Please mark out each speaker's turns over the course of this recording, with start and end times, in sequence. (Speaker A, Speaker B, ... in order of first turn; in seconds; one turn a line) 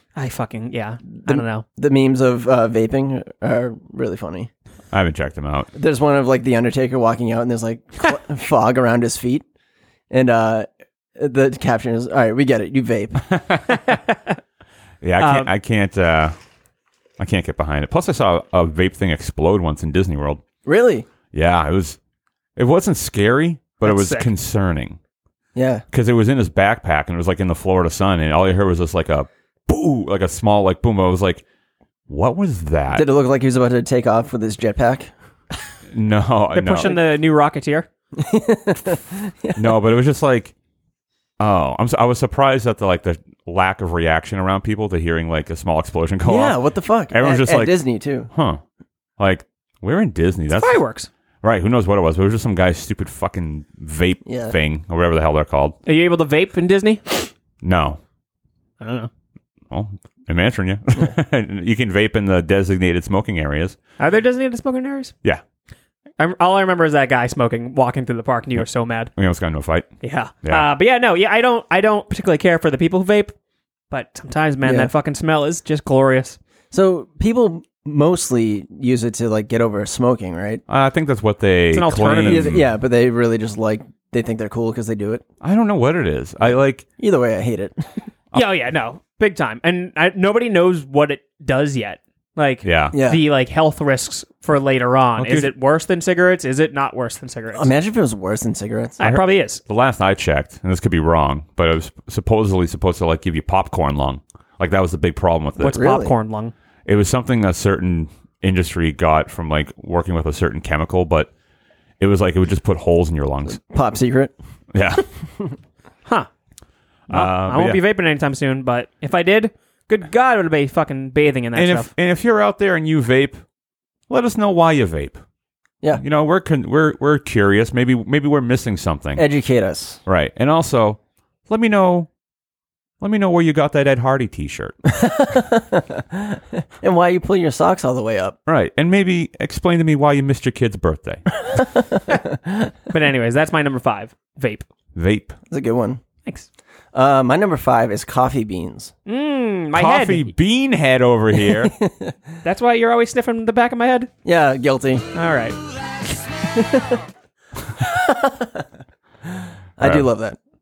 Speaker A: 0.2-1.6
Speaker B: 1.2-4.5
Speaker C: 4.9-5.7
Speaker B: 5.7-9.4
Speaker B: 10.1-13.2
Speaker C: 13.3-13.6
Speaker A: 13.7-14.4
Speaker C: 15.0-16.4
Speaker A: 15.2-15.5
Speaker C: 17.2-20.4
Speaker B: 20.7-21.1
Speaker C: 21.3-22.0
Speaker C: 22.6-25.0
Speaker A: 23.8-24.3
Speaker B: 25.6-25.8
Speaker C: 25.9-31.4
Speaker C: 32.1-33.1
Speaker B: 32.9-35.1
Speaker C: 35.9-37.0
Speaker A: 36.5-37.9
Speaker B: 38.2-39.8
Speaker C: 39.5-40.5
Speaker C: 41.4-46.6
Speaker B: 46.2-48.3
Speaker C: 47.1-47.8
Speaker C: 48.3-48.6
Speaker C: 49.2-50.8
Speaker A: 50.5-51.1
Speaker C: 51.4-55.8
Speaker B: 54.3-54.5
Speaker A: 55.9-57.3
Speaker C: 57.6-58.0
Speaker A: 58.8-59.1
Speaker C: 59.7-63.8
Speaker A: 64.0-65.1
Speaker A: 66.2-69.1
Speaker C: 69.2-69.9
Speaker A: 70.0-73.3
Speaker A: 73.9-76.4
Speaker B: 74.6-74.9
Speaker B: 76.7-80.6
Speaker C: 80.7-82.7
Speaker A: 81.7-82.5
Speaker B: 82.3-85.2
Speaker C: 85.4-86.9
Speaker B: 87.0-87.8
Speaker A: 88.3-97.7
Speaker C: 92.6-93.0
Speaker B: 92.9-93.2
Speaker C: 95.2-95.5
Speaker B: 97.5-99.0
Speaker A: 99.0-99.6
Speaker C: 99.0-105.8
Speaker A: 105.6-106.5
Speaker B: 105.7-106.1
Speaker C: 106.9-111.3
Speaker C: 112.0-113.6
Speaker B: 113.5-114.3
Speaker C: 114.7-115.1
Speaker C: 117.1-117.8
Speaker A: 117.1-121.9
Speaker C: 121.5-123.4
Speaker C: 124.1-125.2
Speaker C: 126.0-129.2
Speaker B: 129.2-130.0
Speaker C: 130.1-132.1
Speaker C: 133.0-134.8
Speaker B: 134.9-138.4
Speaker C: 138.5-141.2
Speaker B: 141.6-142.7
Speaker A: 142.9-144.7
Speaker C: 144.9-145.4
Speaker B: 145.5-146.0
Speaker B: 146.9-148.9
Speaker A: 149.1-150.3
Speaker C: 149.7-151.8
Speaker B: 151.5-152.2
Speaker A: 152.4-154.1
Speaker B: 154.2-155.1
Speaker A: 155.2-155.6
Speaker B: 156.5-157.0
Speaker B: 157.8-158.7
Speaker B: 159.3-160.4